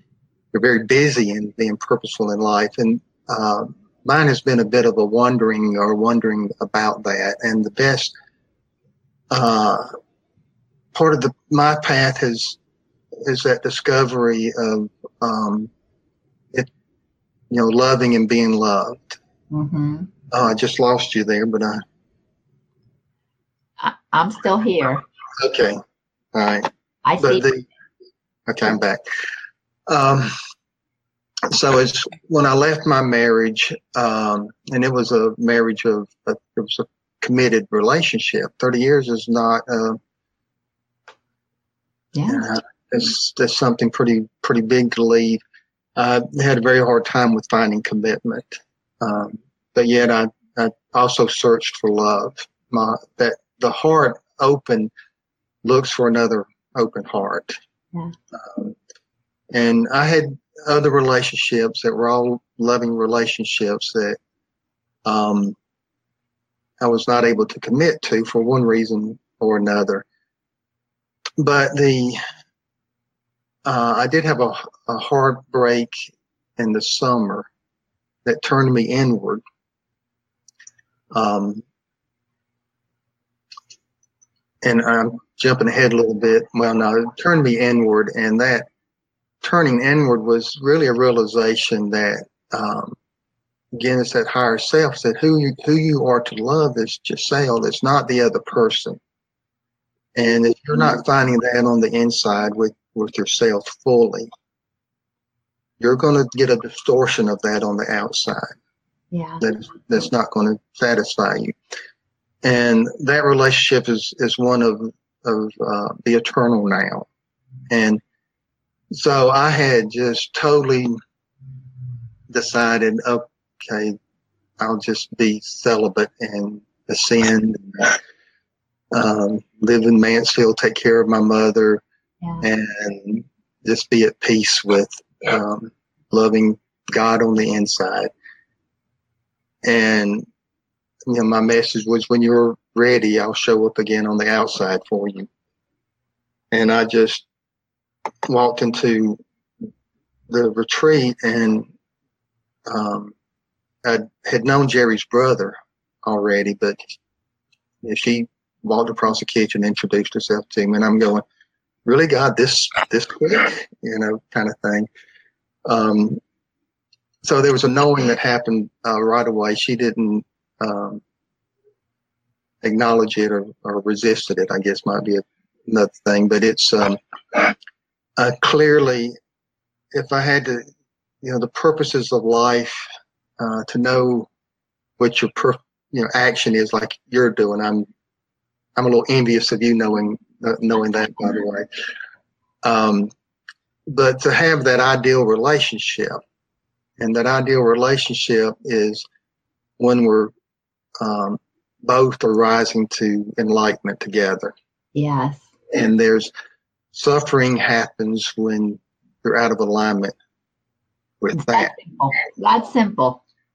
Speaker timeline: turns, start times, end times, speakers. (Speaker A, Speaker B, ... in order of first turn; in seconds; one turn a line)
Speaker A: 0.5-8.1
Speaker A: 9.3-9.9
Speaker A: 10.9-12.6
Speaker A: 13.2-15.7
Speaker A: 17.5-19.2
Speaker B: 19.5-20.1
Speaker A: 20.3-21.8
Speaker B: 23.8-25.0
Speaker A: 25.4-25.8
Speaker A: 26.3-27.7
Speaker B: 27.1-27.4
Speaker A: 28.5-29.0
Speaker A: 29.9-30.3
Speaker A: 31.5-40.0
Speaker B: 42.1-42.5
Speaker A: 42.3-45.4
Speaker A: 46.0-54.9
Speaker A: 55.6-57.5
Speaker A: 58.3-58.8
Speaker A: 59.5-64.2
Speaker A: 65.0-65.6
Speaker A: 66.8-70.0
Speaker A: 71.4-72.2
Speaker A: 73.7-75.9
Speaker A: 76.6-77.5
Speaker A: 78.2-79.4
Speaker A: 81.1-81.6
Speaker A: 84.6-88.7
Speaker A: 89.4-93.0
Speaker A: 93.8-99.0
Speaker A: 100.2-104.3
Speaker A: 105.8-108.5
Speaker B: 109.1-109.4
Speaker A: 109.4-111.6
Speaker A: 112.4-117.1
Speaker A: 117.7-118.0
Speaker A: 118.9-121.0
Speaker A: 122.3-124.0
Speaker A: 124.6-128.0
Speaker A: 128.9-131.8
Speaker A: 132.4-138.1
Speaker A: 139.6-140.3
Speaker A: 141.1-145.3
Speaker A: 146.5-147.3
Speaker A: 148.3-149.2
Speaker A: 150.3-151.7
Speaker A: 152.7-153.1
Speaker A: 153.8-156.8
Speaker A: 157.8-161.2
Speaker A: 161.9-164.9
Speaker A: 165.7-166.2
Speaker A: 167.2-171.0
Speaker A: 172.6-177.6
Speaker A: 178.2-179.1
Speaker A: 179.9-180.7
Speaker A: 181.2-182.9
Speaker A: 183.4-184.3
Speaker A: 185.0-187.9
Speaker A: 188.8-191.7
Speaker A: 192.6-193.1
Speaker A: 193.9-196.2
Speaker A: 197.0-199.1
Speaker A: 199.8-200.3
Speaker A: 201.0-204.5
Speaker B: 204.9-205.5
Speaker A: 205.7-206.3
Speaker A: 206.9-210.1
Speaker A: 211.2-211.8
Speaker B: 211.3-213.2